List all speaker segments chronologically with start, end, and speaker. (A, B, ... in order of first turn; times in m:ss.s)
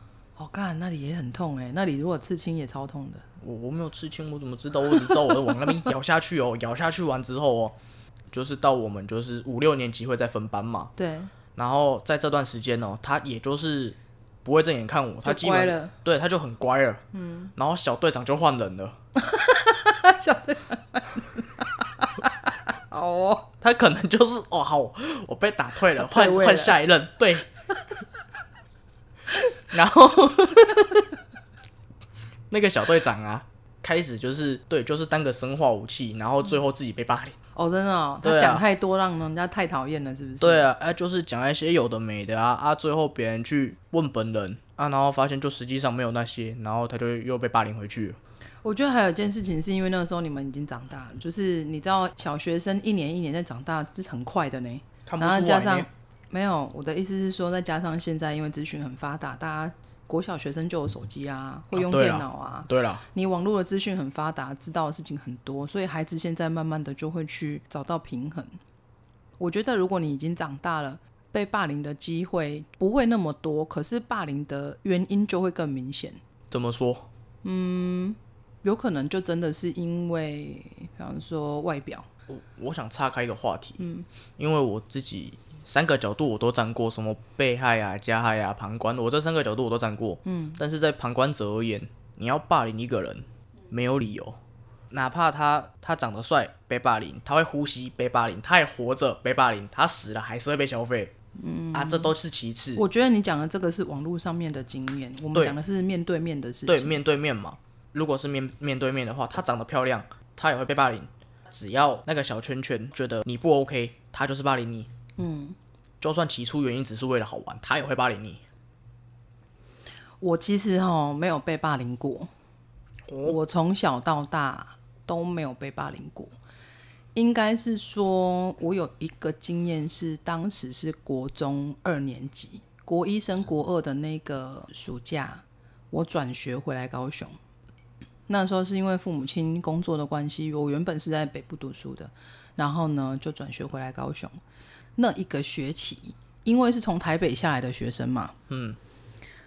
0:00.4-0:03.2 A
0:03.4-0:07.8 B
0:05.1-0:05.7 A
0:08.3-0:10.9 B
0:11.0-0:11.3 A
0:11.6-0:17.0 B
0:15.2-0:15.9 A
0:17.1-0:17.5 A
0:17.6-0:18.9 B
0:19.2-0:23.5 A
0:23.6-0:27.4 B
0:26.0-0:26.8 A
0:29.7-0:31.0 B
0:32.5-0:37.4 B
0:37.6-0:40.7 A
0:38.2-0:38.6 B
0:40.4-0:48.2 B
0:48.6-1:08.6 A
0:55.1-0:55.9 B
1:01.7-1:03.0 B
1:09.4-1:16.2 A
1:16.5-1:17.1 B
1:17.4-1:22.1 A
1:22.3-1:23.8 B
1:23.8-1:24.1 A
1:24.4-1:34.4 B
1:30.2-1:30.6 A
1:34.9-1:41.1 B
1:41.4-1:42.1 A
1:41.7-1:42.8 B
1:42.8-1:47.0 A
1:46.7-1:54.9 B
1:55.2-1:55.6 A
1:56.0-1:58.4 B
2:00.2-2:02.3 A
2:03.1-2:03.4 B
2:03.2-2:06.3 A
2:07.2-2:17.3 A
2:18.3-2:24.3 A
2:25.0-2:28.4 A
2:28.5-2:28.8 B